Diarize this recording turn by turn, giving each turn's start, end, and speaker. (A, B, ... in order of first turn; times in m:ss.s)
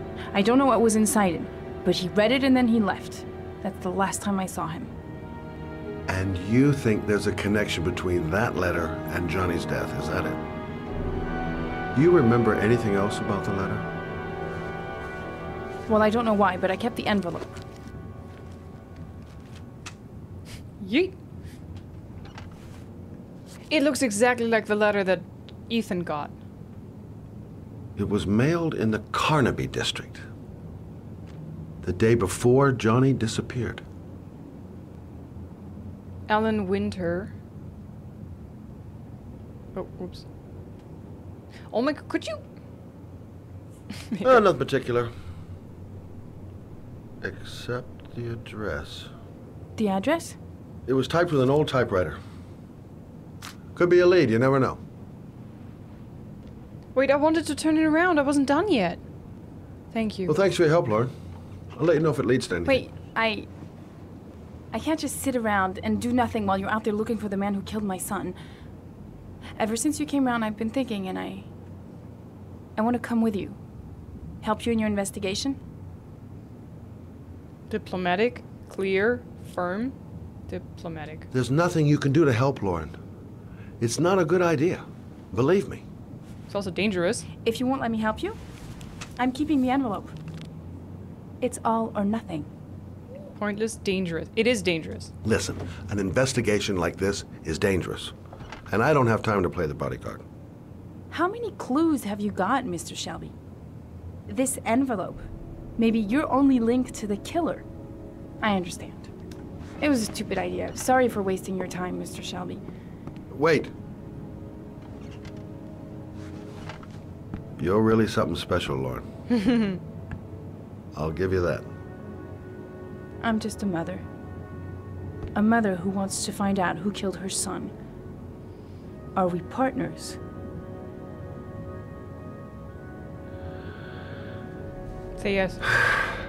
0:00.3-0:04.9 A
0:06.1-0:10.4 B
0:11.9-0:13.8 B
0:15.9-0:17.6 A
0:20.8-0:21.1 C
0:23.7-0:26.3 C
0:28.0-0:30.2 B
0:31.8-0:33.8 B
0:36.3-0:37.3 C
0:39.7-0:40.2 C
0:41.7-0:42.4 C
0:44.1-0:44.4 C
0:44.2-0:45.1 B
0:47.2-0:49.1 B
0:49.8-0:50.4 A
0:50.8-0:52.2 B
0:53.7-0:54.8 B
0:56.9-0:59.0 C
0:59.9-1:00.3 C
1:00.3-1:01.1 B
1:01.7-1:02.9 B
1:02.6-1:03.5 A
1:04.7-1:08.4 A
1:09.6-1:11.5 A
1:12.8-1:13.6 A
1:14.4-1:15.6 A
1:17.7-1:20.0 C
1:20.5-1:21.3 C
1:21.3-1:22.9 B
1:23.8-1:25.8 B
1:26.5-1:27.2 C
1:27.4-1:28.4 A
1:29.2-1:30.1 A
1:31.4-1:32.5 A
1:33.4-1:35.1 C
1:35.2-1:38.1 B
1:38.7-1:40.2 B
1:41.1-1:43.3 A
1:44.3-1:45.2 A
1:45.8-1:47.6 A
1:48.4-1:49.1 A
1:49.8-1:52.6 A
1:53.3-1:53.7 B
1:57.6-1:59.0 B
1:59.3-1:59.8 C
2:00.9-2:01.7 B
2:03.2-2:04.0 A
2:05.3-2:07.7 A
2:09.1-2:10.2 A
2:15.2-2:15.6 C